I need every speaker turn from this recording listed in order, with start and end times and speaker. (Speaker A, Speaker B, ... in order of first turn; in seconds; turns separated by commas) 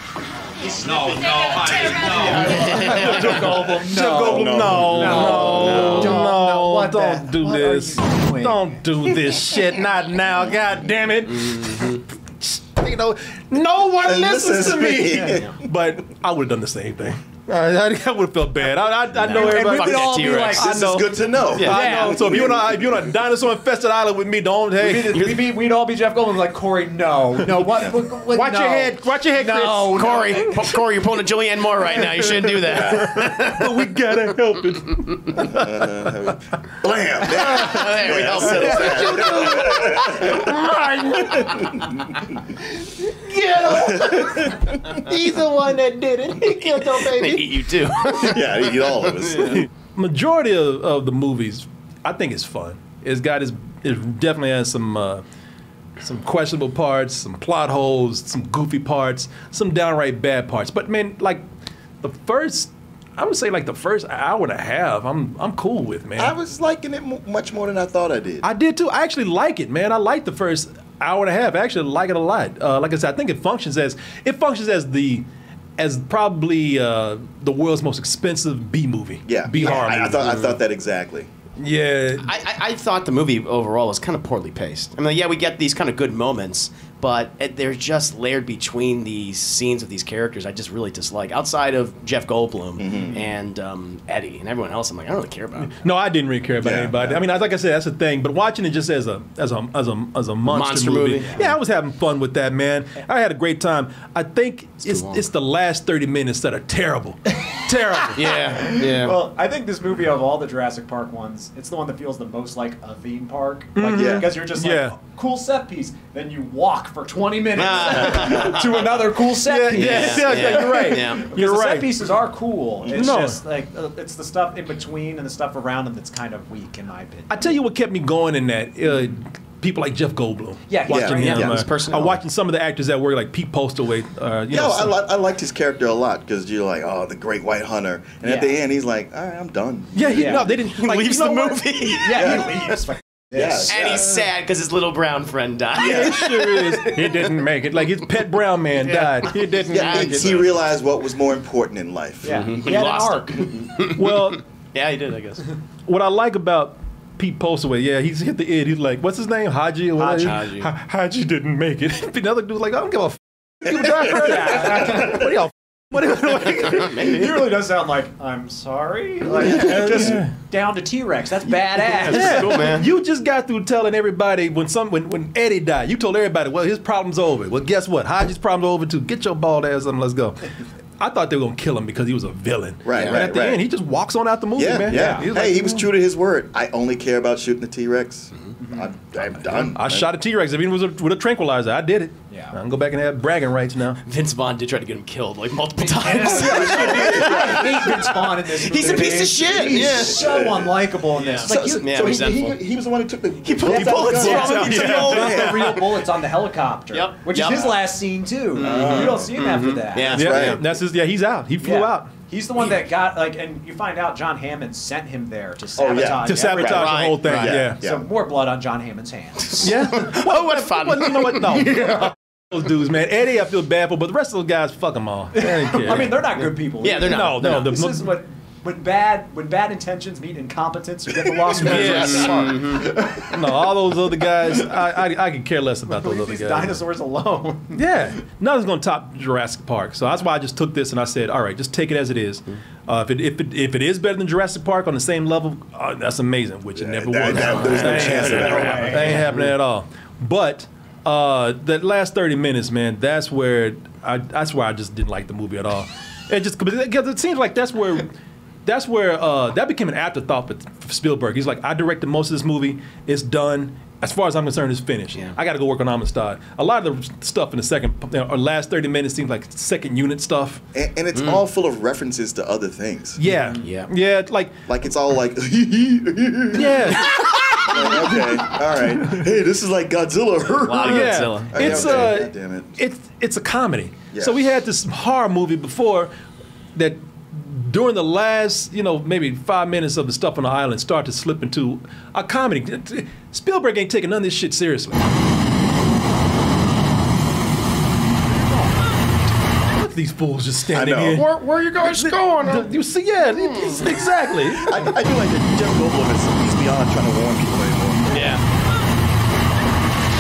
Speaker A: 0.6-3.1, Speaker B: 2.1-8.8, Speaker C: 2.5-5.9, Speaker D: 2.6-3.1, Speaker E: 2.9-25.3, Speaker D: 5.3-6.2, Speaker D: 11.7-11.9, Speaker C: 14.0-15.6, Speaker D: 19.1-20.7, Speaker B: 19.3-20.7, Speaker C: 20.5-23.0, Speaker D: 21.5-22.0, Speaker B: 21.7-22.1, Speaker B: 24.8-30.5, Speaker D: 25.1-25.4, Speaker E: 28.3-30.8, Speaker D: 29.9-33.9, Speaker E: 31.9-35.9, Speaker C: 35.5-40.5, Speaker D: 37.3-40.5, Speaker E: 38.4-41.7, Speaker C: 41.5-42.0, Speaker E: 42.8-48.4, Speaker C: 43.7-44.7, Speaker D: 46.4-48.4, Speaker C: 48.2-49.7, Speaker E: 49.4-55.2, Speaker E: 56.0-61.5, Speaker E: 62.0-66.3, Speaker C: 66.2-68.5, Speaker E: 68.4-75.2, Speaker E: 75.8-80.6, Speaker C: 79.2-81.3, Speaker D: 79.6-79.9, Speaker E: 81.6-82.3, Speaker D: 82.2-95.8, Speaker C: 92.8-93.2, Speaker E: 95.6-108.2, Speaker C: 96.6-97.2, Speaker D: 100.5-101.5, Speaker B: 101.2-101.5, Speaker D: 104.8-105.2, Speaker D: 108.2-109.1, Speaker B: 108.6-127.6, Speaker E: 113.8-115.0, Speaker C: 113.8-114.3, Speaker D: 117.6-118.6, Speaker E: 119.4-122.0, Speaker D: 119.7-121.3, Speaker C: 122.8-123.2, Speaker E: 122.9-123.4, Speaker E: 127.3-134.9, Speaker B: 130.7-131.6, Speaker C: 130.9-131.6, Speaker D: 131.2-132.2, Speaker C: 134.5-140.4, Speaker E: 139.9-142.0, Speaker B: 140.2-140.4, Speaker D: 140.5-142.4, Speaker B: 141.9-143.7, Speaker C: 142.1-142.5, Speaker C: 143.3-144.3, Speaker D: 143.7-147.3, Speaker E: 145.8-150.4, Speaker D: 148.8-150.4, Speaker C: 149.7-152.6, Speaker B: 152.2-153.7, Speaker D: 152.3-155.4, Speaker E: 153.9-154.4, Speaker E: 155.9-167.3, Speaker B: 160.0-160.4, Speaker D: 160.2-160.7, Speaker B: 164.2-165.2, Speaker D: 166.7-167.3, Speaker B: 167.0-172.7, Speaker C: 169.4-170.3, Speaker E: 169.6-170.3, Speaker D: 172.1-172.9, Speaker E: 172.1-180.5, Speaker E: 181.0-185.9, Speaker C: 182.8-183.7, Speaker D: 182.9-183.2, Speaker C: 184.6-190.1, Speaker B: 184.9-185.3, Speaker B: 188.6-188.9, Speaker E: 189.6-194.0, Speaker B: 192.3-192.6, Speaker D: 194.1-200.3, Speaker B: 195.8-202.1, Speaker C: 196.2-197.9, Speaker C: 198.8-200.7, Speaker D: 201.2-202.6, Speaker C: 201.4-205.8, Speaker D: 203.5-205.6, Speaker B: 203.7-210.2, Speaker E: 203.7-205.9, Speaker D: 206.9-207.8, Speaker D: 208.5-210.6, Speaker C: 208.6-209.3, Speaker C: 210.1-210.8, Speaker E: 210.2-212.1, Speaker B: 211.6-216.9, Speaker C: 215.8-218.0, Speaker E: 216.2-217.8, Speaker D: 216.6-217.7, Speaker B: 217.8-219.7, Speaker D: 219.5-221.8, Speaker E: 219.6-226.4, Speaker B: 221.7-222.1, Speaker B: 225.3-233.0, Speaker D: 226.8-227.7, Speaker E: 227.0-228.1, Speaker E: 231.5-236.8, Speaker D: 231.6-232.9, Speaker B: 235.9-237.9, Speaker E: 237.7-258.1, Speaker C: 246.8-249.1, Speaker D: 247.3-249.5, Speaker B: 247.8-249.3, Speaker E: 258.6-270.6, Speaker C: 270.7-273.2, Speaker D: 271.1-271.4, Speaker E: 273.2-274.6, Speaker D: 273.6-273.9, Speaker C: 274.7-277.0, Speaker E: 276.5-278.3, Speaker D: 276.9-277.7, Speaker C: 277.7-282.8, Speaker D: 280.6-282.1, Speaker E: 280.8-286.1, Speaker C: 284.1-284.4, Speaker E: 286.8-295.1, Speaker E: 299.6-301.3, Speaker C: 300.7-301.3, Speaker D: 301.1-302.7, Speaker E: 301.8-304.8, Speaker D: 303.3-303.9, Speaker C: 304.6-308.4, Speaker D: 308.1-308.4